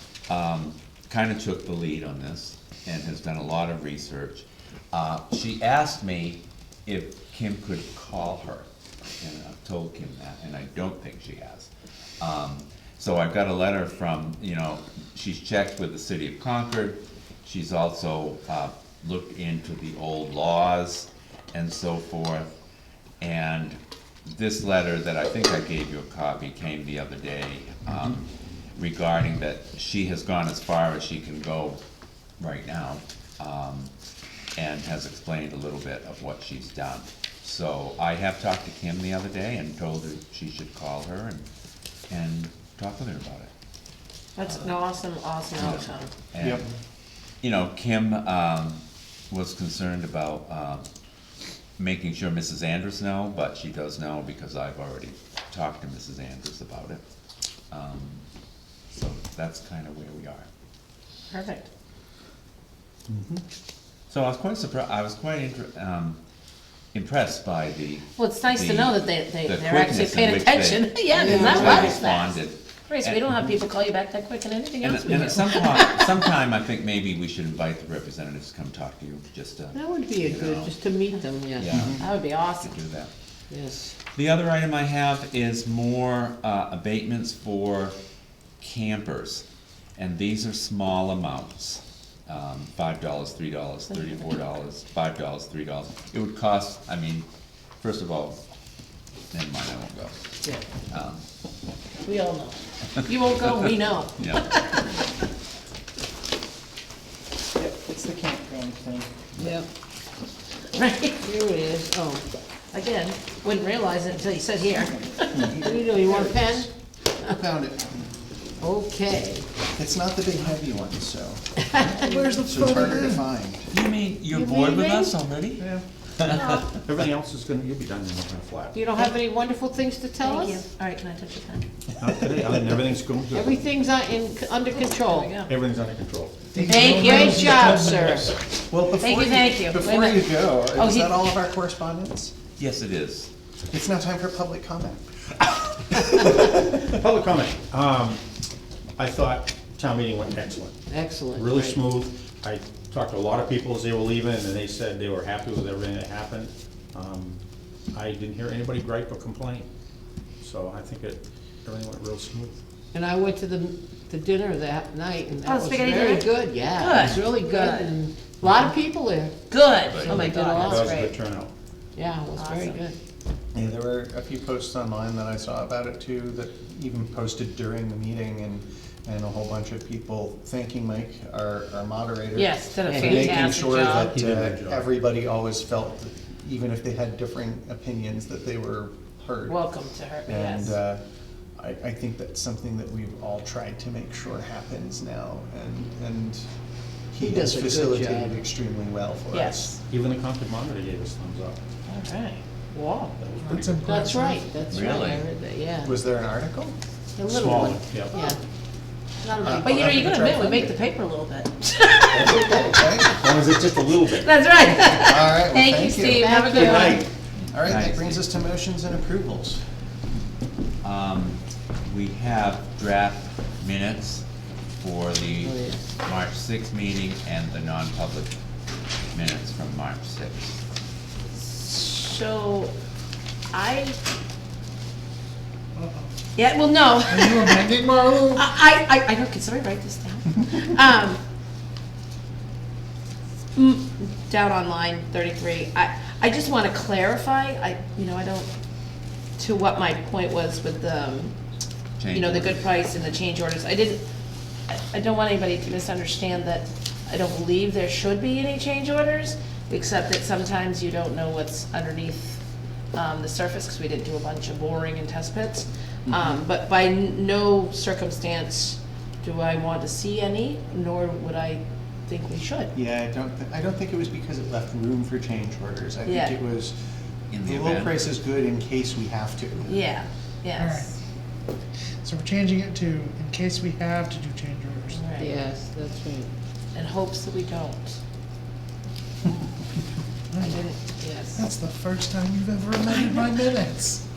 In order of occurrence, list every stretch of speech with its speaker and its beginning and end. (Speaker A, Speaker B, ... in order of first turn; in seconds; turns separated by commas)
Speaker A: 0.3-8.7, Speaker A: 9.2-11.7, Speaker A: 12.2-22.5, Speaker A: 23.2-31.8, Speaker A: 32.4-33.9, Speaker A: 34.5-41.4, Speaker A: 42.1-43.5, Speaker B: 44.4-46.1, Speaker A: 44.4-44.7, Speaker A: 45.5-46.6, Speaker C: 46.4-46.7, Speaker A: 47.4-50.9, Speaker A: 51.8-57.0, Speaker A: 57.7-58.2, Speaker A: 58.9-60.5, Speaker B: 61.3-61.7, Speaker D: 63.1-63.4, Speaker A: 64.1-66.2, Speaker A: 66.9-73.3, Speaker B: 68.2-76.2, Speaker E: 71.1-72.0, Speaker A: 74.8-80.8, Speaker E: 79.7-81.7, Speaker A: 81.5-83.1, Speaker C: 81.7-82.0, Speaker B: 82.0-82.8, Speaker E: 83.5-83.9, Speaker A: 84.1-88.0, Speaker A: 88.6-89.4, Speaker A: 90.0-97.3, Speaker A: 97.8-98.4, Speaker A: 99.3-100.2, Speaker A: 100.9-101.2, Speaker B: 102.0-104.9, Speaker A: 103.2-104.6, Speaker C: 107.6-109.0, Speaker E: 109.4-109.7, Speaker B: 110.7-111.2, Speaker E: 111.2-112.2, Speaker B: 112.7-115.6, Speaker C: 115.3-116.7, Speaker E: 115.5-116.7, Speaker C: 117.2-118.1, Speaker E: 118.6-119.5, Speaker C: 119.7-123.7, Speaker E: 121.7-122.2, Speaker F: 121.8-123.2, Speaker A: 123.7-126.7, Speaker E: 124.3-125.1, Speaker B: 126.3-126.6, Speaker D: 126.7-128.8, Speaker E: 128.7-130.7, Speaker B: 130.2-131.7, Speaker D: 132.0-133.7, Speaker E: 133.3-135.3, Speaker B: 134.7-135.5, Speaker D: 135.4-136.7, Speaker C: 136.5-142.3, Speaker B: 136.6-138.0, Speaker E: 136.6-138.3, Speaker F: 136.7-138.2, Speaker B: 138.9-141.2, Speaker A: 142.6-143.3, Speaker C: 143.7-146.9, Speaker D: 146.2-148.2, Speaker D: 149.0-150.8, Speaker E: 150.9-151.8, Speaker D: 151.3-157.4, Speaker D: 157.9-159.7, Speaker D: 160.4-162.6, Speaker E: 162.9-171.1, Speaker B: 165.4-167.9, Speaker B: 169.5-171.2, Speaker A: 169.9-170.3, Speaker D: 170.5-171.5, Speaker E: 171.9-172.9, Speaker B: 172.3-172.8, Speaker C: 173.5-189.6, Speaker B: 182.3-184.2, Speaker E: 182.8-183.6, Speaker D: 183.9-184.9, Speaker B: 189.5-190.7, Speaker C: 190.2-191.0, Speaker C: 191.6-196.4, Speaker C: 197.1-199.8, Speaker E: 197.2-198.4, Speaker B: 199.3-199.7, Speaker D: 199.9-201.6, Speaker B: 201.8-203.1, Speaker D: 203.2-203.9, Speaker F: 203.4-204.4, Speaker E: 203.8-205.9, Speaker A: 204.7-205.2, Speaker C: 205.8-206.8, Speaker E: 207.2-208.3, Speaker D: 207.3-208.2, Speaker B: 208.1-208.4, Speaker E: 209.2-210.3, Speaker C: 209.4-210.7, Speaker B: 209.6-212.7, Speaker C: 212.1-213.2, Speaker D: 213.0-214.3, Speaker B: 214.1-217.1, Speaker C: 215.0-219.6, Speaker E: 216.1-217.1, Speaker A: 217.4-218.3, Speaker A: 220.8-224.2, Speaker A: 224.8-228.3, Speaker E: 225.4-225.8, Speaker A: 229.1-230.6, Speaker B: 231.3-232.7, Speaker B: 233.5-234.0, Speaker F: 235.8-236.1, Speaker B: 236.3-241.2, Speaker F: 237.1-238.5, Speaker B: 243.5-248.5, Speaker B: 249.4-251.3, Speaker A: 252.0-252.7, Speaker B: 252.1-254.0, Speaker B: 254.7-262.4, Speaker B: 262.9-272.7, Speaker C: 266.1-266.4, Speaker C: 272.7-276.7, Speaker B: 276.1-276.4, Speaker A: 277.3-278.0, Speaker C: 277.4-279.8, Speaker B: 279.7-280.9, Speaker F: 280.5-280.9, Speaker F: 282.0-285.0, Speaker B: 284.9-285.4, Speaker E: 285.2-286.3, Speaker B: 286.7-288.0, Speaker F: 290.3-290.7, Speaker B: 290.4-291.4, Speaker F: 291.3-294.0, Speaker B: 292.9-293.4